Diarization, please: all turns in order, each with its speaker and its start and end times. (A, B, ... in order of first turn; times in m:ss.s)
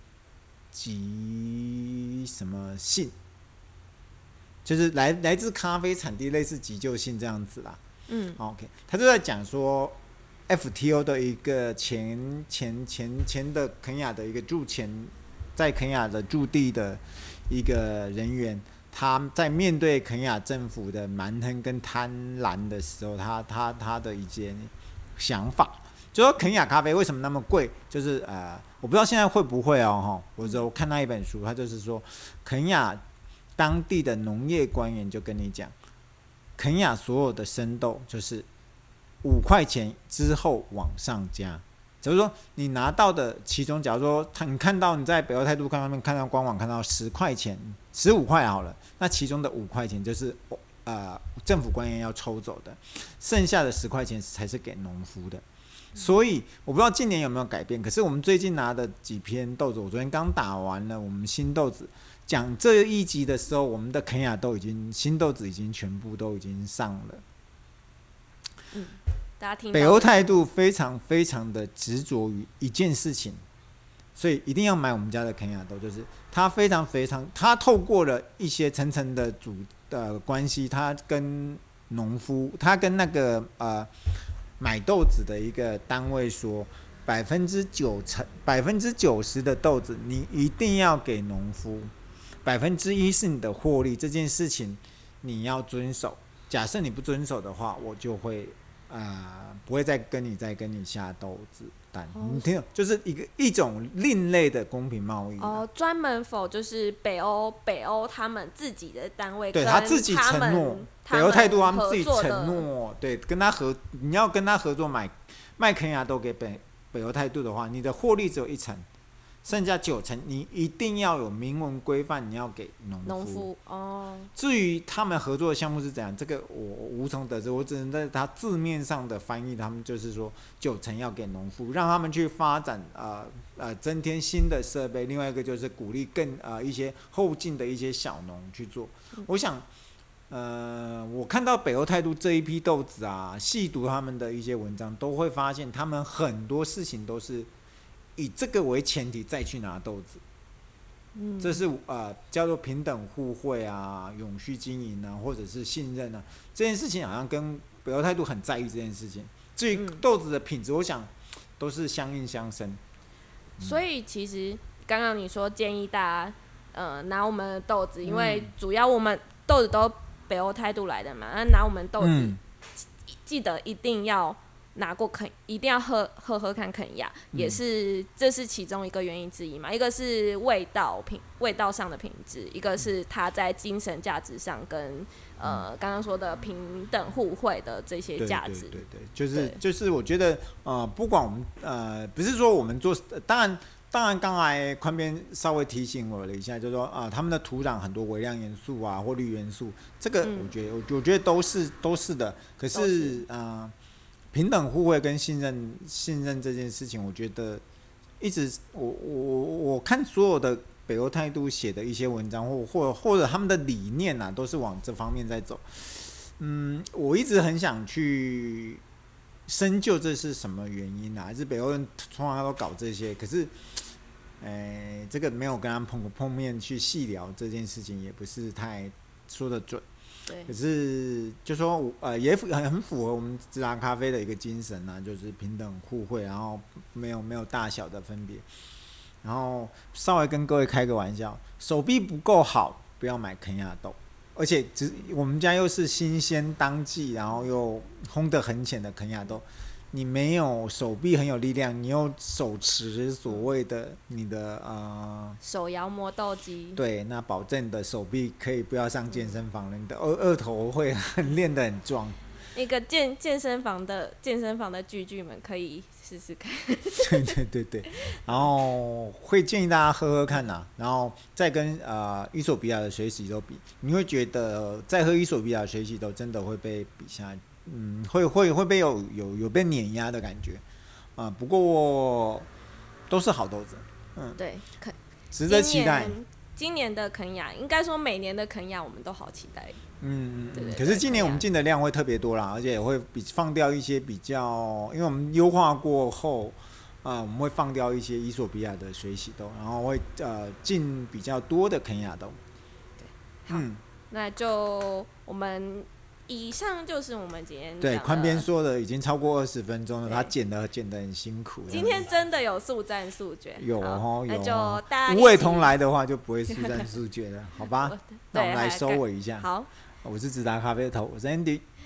0:00.7-0:03.1 A
0:04.6-0:07.8 A
0:08.1-0:08.4 B
0:08.4-0:10.0 A
0:10.5-0:33.0 A
0:33.6-0:35.7 A
0:36.6-0:38.5 A
0:39.2-0:55.4 A
0:56.0-1:07.2 A
1:08.7-1:10.4 B
1:09.7-1:13.4 A
1:14.2-1:31.9 A
1:32.4-1:45.6 A
1:42.1-1:42.4 B
1:45.4-1:52.7 B
1:49.5-1:58.8 A
1:59.4-2:03.5 A
2:03.0-2:04.3 B
2:04.3-2:19.6 A
2:20.3-2:27.5 A
2:28.2-2:30.2 A
2:31.1-2:31.6 B
2:31.4-2:42.8 A
2:39.7-2:40.0 B
2:43.6-2:52.4 B
2:48.0-2:48.5 A
2:52.0-2:52.4 A
2:53.0-3:08.7 B
2:57.3-2:57.6 A
3:08.2-3:23.7 A
3:09.3-3:09.6 B
3:20.2-3:20.5 B
3:22.7-3:23.2 B
3:24.3-3:27.6 A
3:28.2-3:38.8 A
3:39.5-3:49.8 A
3:50.4-3:58.4 A
3:59.2-4:15.4 A
4:15.4-4:16.8 B
4:16.8-4:22.2 A
4:19.1-4:19.4 B
4:22.5-4:27.4 B
4:27.0-4:40.6 A
4:41.2-4:42.5 A
4:43.1-4:44.4 A
4:44.4-4:49.8 B
4:45.3-4:46.2 A
4:50.0-5:02.4 A
4:50.5-4:51.4 B
5:03.0-5:08.5 B
5:03.5-5:03.8 A
5:07.8-5:12.1 A
5:10.0-5:10.3 B
5:11.7-5:15.7 B
5:13.6-5:19.5 A
5:16.5-5:16.9 B
5:17.6-5:19.7 B
5:20.0-5:21.6 A